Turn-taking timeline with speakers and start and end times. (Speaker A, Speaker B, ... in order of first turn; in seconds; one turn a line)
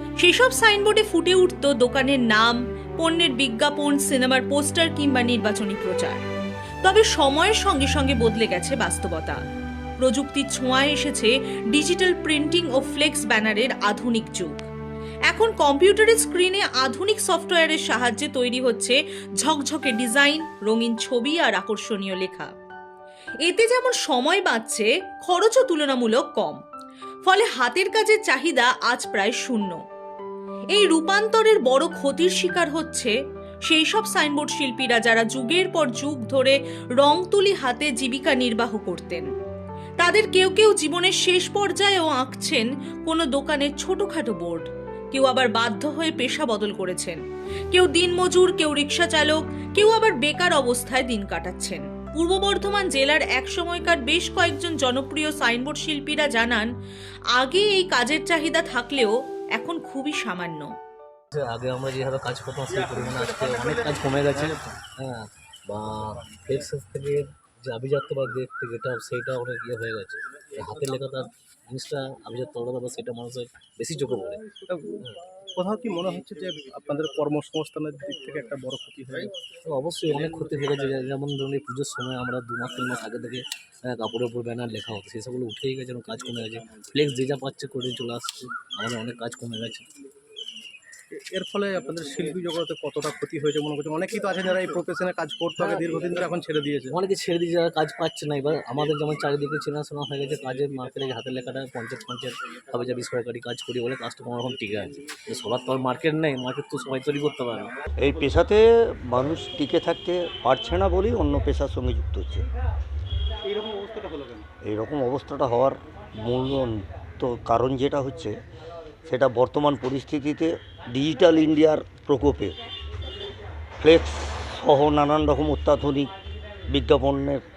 Speaker A: 0.2-6.2
Speaker A: 6.8-9.4
Speaker A: 10.0-14.6
Speaker A: 15.3-22.5
Speaker A: 23.4-26.6
Speaker A: 27.2-29.8
Speaker A: 30.7-33.1
Speaker A: 33.7-39.3
Speaker A: 40.0-47.2
Speaker A: 47.7-56.7
Speaker A: 57.3-60.7
Speaker B: 61.3-75.2
Speaker C: 74.6-75.0
Speaker C: 75.5-79.3
Speaker B: 79.7-89.9
Speaker C: 91.1-97.0
Speaker B: 95.6-96.1
Speaker B: 96.9-107.7
Speaker D: 108.0-112.5
Speaker D: 114.6-118.4
Speaker D: 119.1-122.6
Speaker D: 123.8-126.1
Speaker D: 126.7-127.4